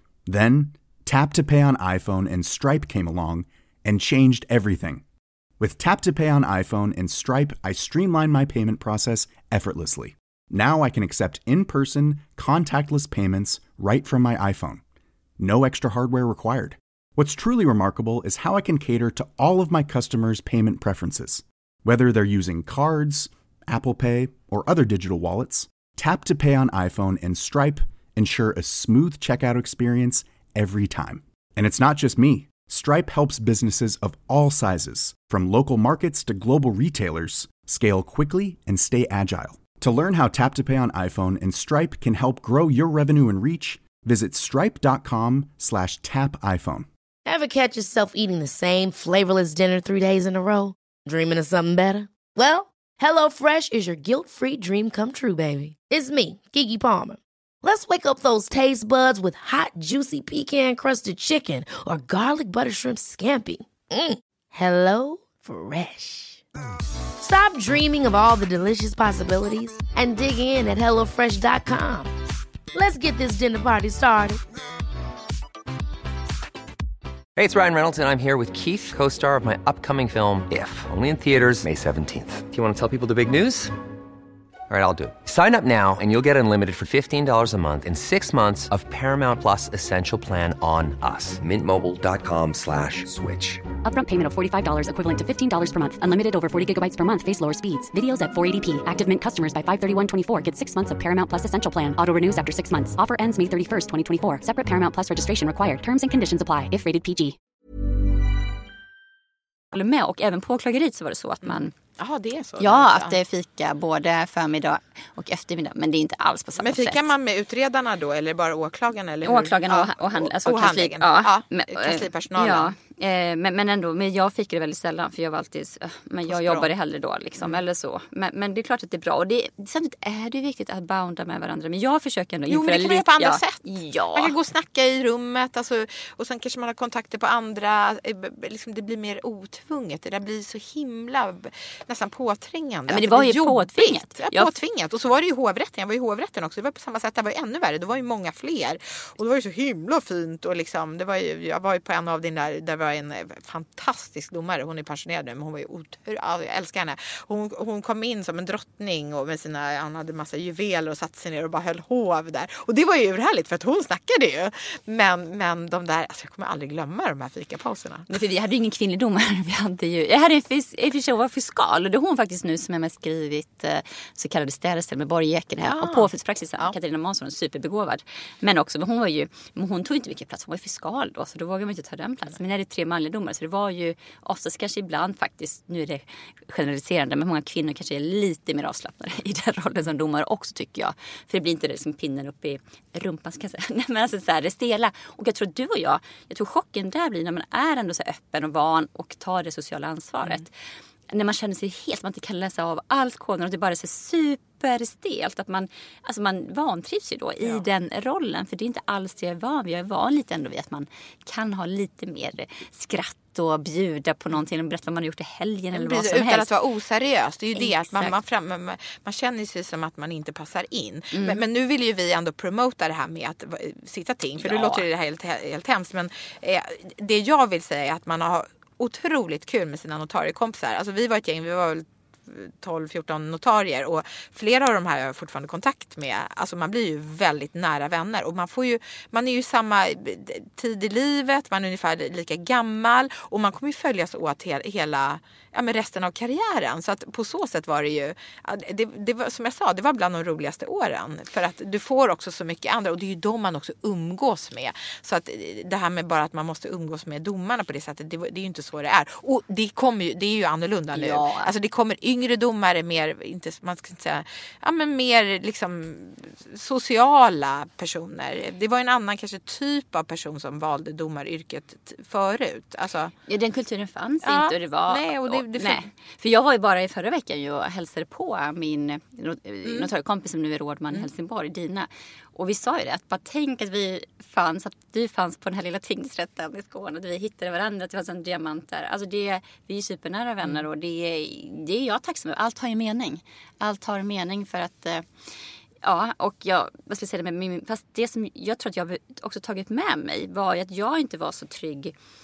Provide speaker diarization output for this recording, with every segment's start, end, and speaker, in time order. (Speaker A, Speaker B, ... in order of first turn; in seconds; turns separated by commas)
Speaker A: 0.3-5.0, Speaker A: 5.6-14.8, Speaker A: 15.4-46.9, Speaker B: 47.2-66.4, Speaker B: 67.2-72.1, Speaker B: 72.7-74.4, Speaker C: 77.3-83.7, Speaker C: 84.7-93.6, Speaker D: 93.8-107.3, Speaker E: 109.7-111.7, Speaker F: 111.4-113.2, Speaker E: 112.6-117.0, Speaker F: 116.6-122.7, Speaker E: 119.2-134.3, Speaker F: 126.3-126.7, Speaker F: 132.5-168.1, Speaker E: 142.9-144.5, Speaker E: 168.1-200.5, Speaker F: 175.6-176.7, Speaker E: 201.1-216.5, Speaker F: 215.7-273.1, Speaker E: 217.5-218.1, Speaker E: 221.1-221.4, Speaker E: 224.4-224.8, Speaker E: 260.9-261.5, Speaker E: 273.3-295.0, Speaker F: 274.2-275.9, Speaker E: 295.8-301.9